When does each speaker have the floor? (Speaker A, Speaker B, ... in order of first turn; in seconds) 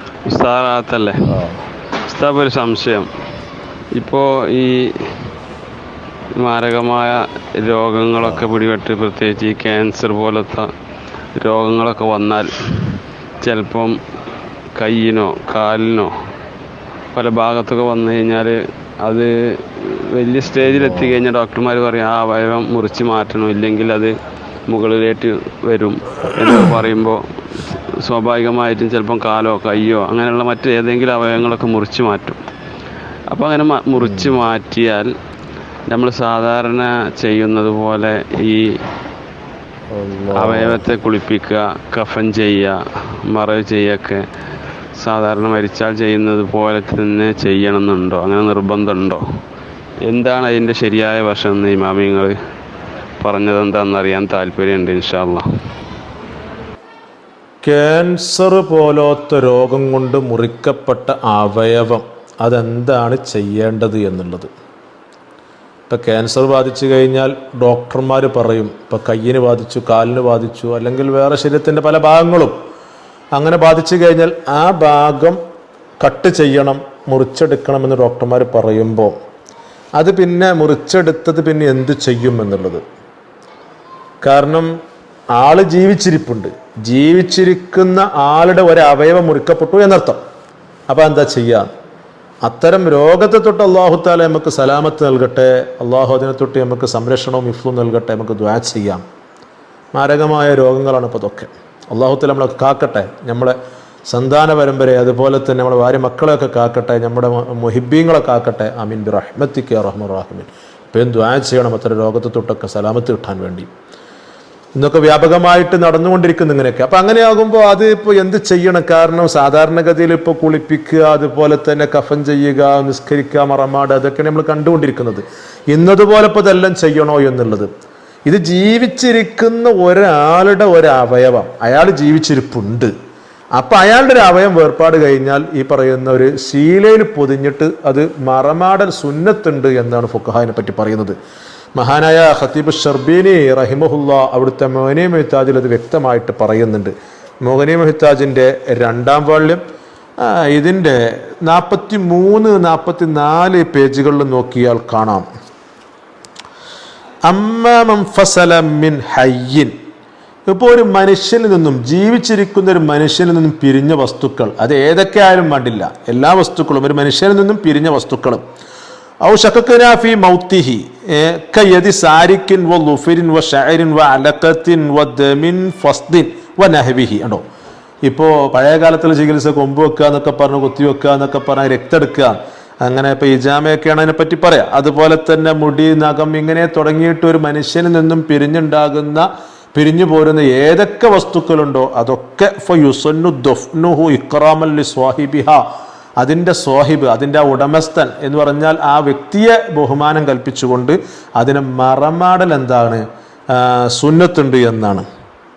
Speaker A: 0.3-1.2, 2.1-3.1, 4.0-5.1, 6.4-10.7, 11.4-14.0, 14.8-16.1, 17.1-24.1, 24.7-32.4, 33.3-35.1, 35.9-38.6, 40.4-44.2, 45.0-49.2, 50.1-52.3, 53.2-55.5
Speaker B: 1.3-1.6, 20.6-21.2, 34.0-34.3, 39.9-40.8, 57.6-64.5, 65.9-72.5, 73.3-75.4, 76.0-79.1, 80.0-82.8, 84.2-84.7, 85.3-90.2, 90.9-91.7, 92.4-99.0, 99.9-103.6, 104.1-113.7, 114.8-127.7, 128.3-132.9, 133.6-141.2, 141.8-146.9, 147.4-149.6, 150.2-155.2, 157.3-159.7, 160.5-168.4, 169.2-177.4, 178.0-195.6, 196.2-205.1